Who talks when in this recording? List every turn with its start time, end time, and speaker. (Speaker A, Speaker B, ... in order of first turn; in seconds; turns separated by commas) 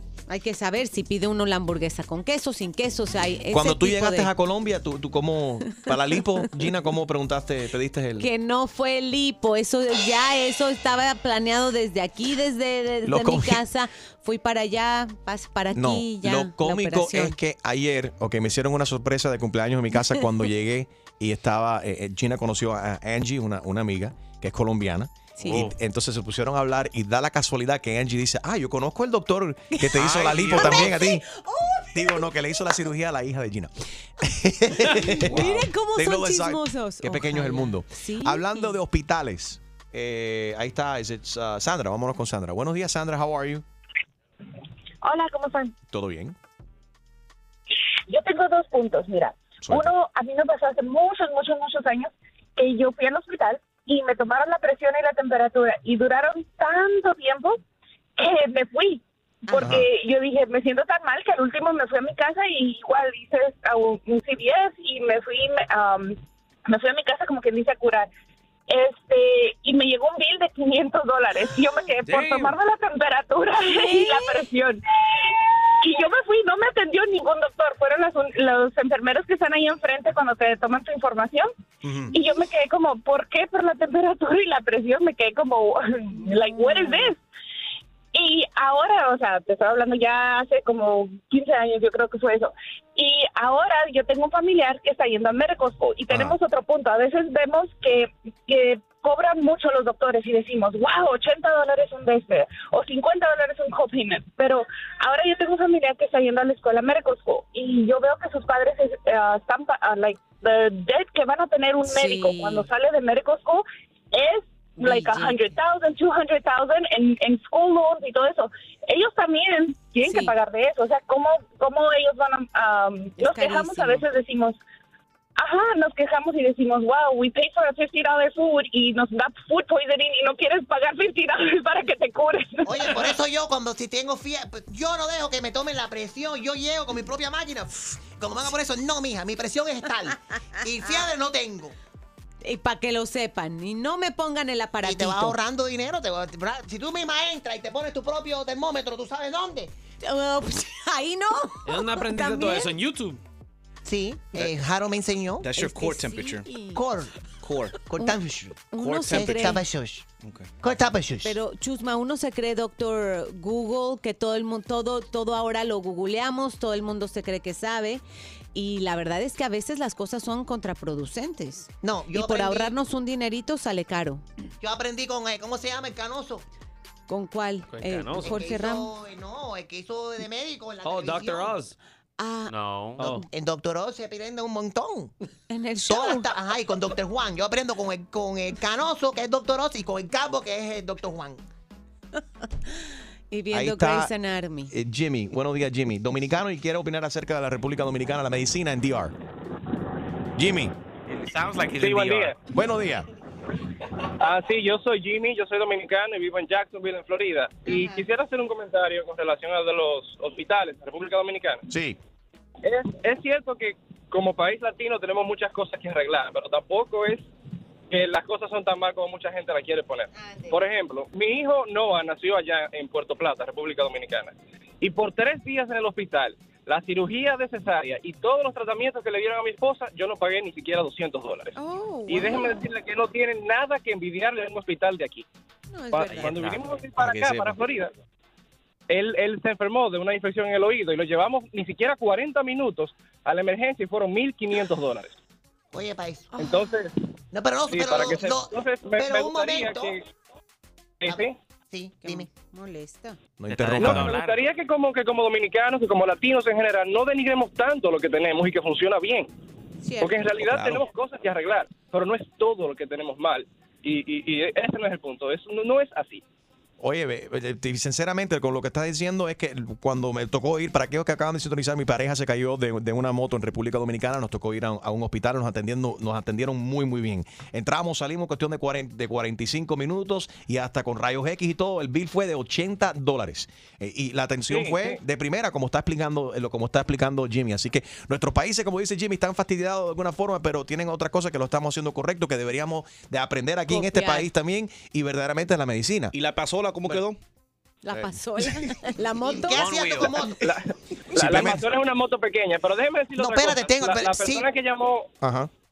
Speaker A: 0.3-4.3, Speaker B: 3.5-8.3, Speaker A: 8.2-17.3, Speaker B: 13.1-13.6, Speaker B: 15.7-31.2, Speaker A: 25.4-25.7, Speaker C: 29.9-30.9, Speaker A: 30.5-32.2, Speaker B: 31.9-43.6, Speaker A: 34.9-38.8, Speaker D: 45.0-45.7, Speaker B: 45.9-46.3, Speaker D: 48.1-57.6, Speaker B: 49.6-49.9, Speaker D: 58.1-68.1, Speaker A: 59.5-59.8, Speaker B: 59.6-59.9, Speaker D: 68.7-81.5, Speaker E: 72.0-72.5, Speaker A: 73.7-74.4, Speaker B: 81.8-82.2, Speaker D: 82.1-87.2, Speaker A: 86.6-87.0, Speaker D: 88.1-124.6, Speaker B: 96.1-96.4, Speaker A: 111.8-112.7, Speaker A: 114.8-115.4, Speaker A: 120.0-120.3, Speaker A: 123.2-124.0, Speaker D: 125.4-132.9, Speaker F: 132.6-141.7, Speaker A: 142.4-145.3, Speaker F: 144.8-149.7, Speaker A: 150.0-152.7, Speaker E: 151.7-153.2, Speaker F: 153.8-155.5, Speaker G: 155.4-156.5, Speaker A: 155.6-156.8, Speaker F: 156.7-157.1, Speaker G: 157.4-157.8, Speaker F: 157.8-160.1, Speaker A: 158.7-159.6, Speaker G: 158.8-159.6, Speaker F: 160.6-161.3, Speaker A: 161.2-168.0, Speaker A: 168.5-174.2, Speaker F: 171.8-172.7, Speaker F: 174.6-176.4, Speaker A: 177.1-178.9, Speaker E: 177.7-178.3, Speaker F: 178.2-181.6, Speaker E: 180.8-181.7, Speaker A: 182.2-183.2, Speaker C: 182.5-183.1, Speaker E: 183.0-183.2, Speaker F: 183.3-185.1, Speaker A: 185.5-186.3, Speaker F: 185.8-191.4, Speaker A: 193.3-194.7, Speaker B: 193.5-194.1, Speaker B: 194.7-199.1, Speaker B: 200.3-200.7, Speaker C: 201.1-202.3, Speaker H: 201.8-202.4, Speaker B: 202.5-203.0, Speaker H: 204.2-211.6, Speaker B: 211.7-212.0, Speaker H: 212.6-217.3, Speaker H: 217.9-231.6, Speaker A: 231.6-232.6, Speaker H: 232.1-235.2, Speaker A: 235.7-236.3, Speaker H: 235.9-237.9, Speaker C: 236.2-236.6, Speaker H: 238.9-245.2, Speaker F: 245.7-246.3, Speaker A: 246.3-246.7, Speaker H: 246.4-246.9, Speaker F: 247.3-249.9, Speaker H: 247.7-250.1, Speaker H: 251.0-251.4, Speaker F: 251.1-252.3, Speaker A: 252.0-253.2, Speaker B: 253.4-254.1, Speaker C: 253.5-254.5, Speaker H: 253.8-259.3, Speaker A: 259.8-260.3, Speaker H: 260.0-266.2, Speaker B: 260.4-260.8, Speaker B: 266.8-296.1, Speaker H: 284.5-285.0, Speaker A: 293.7-294.3, Speaker G: 296.1-297.2, Speaker A: 297.8-299.6, Speaker F: 299.2-300.4, Speaker C: 299.5-300.2, Speaker B: 301.1-301.6, Speaker H: 301.1-305.1, Speaker F: 303.1-304.5, Speaker B: 305.2-305.5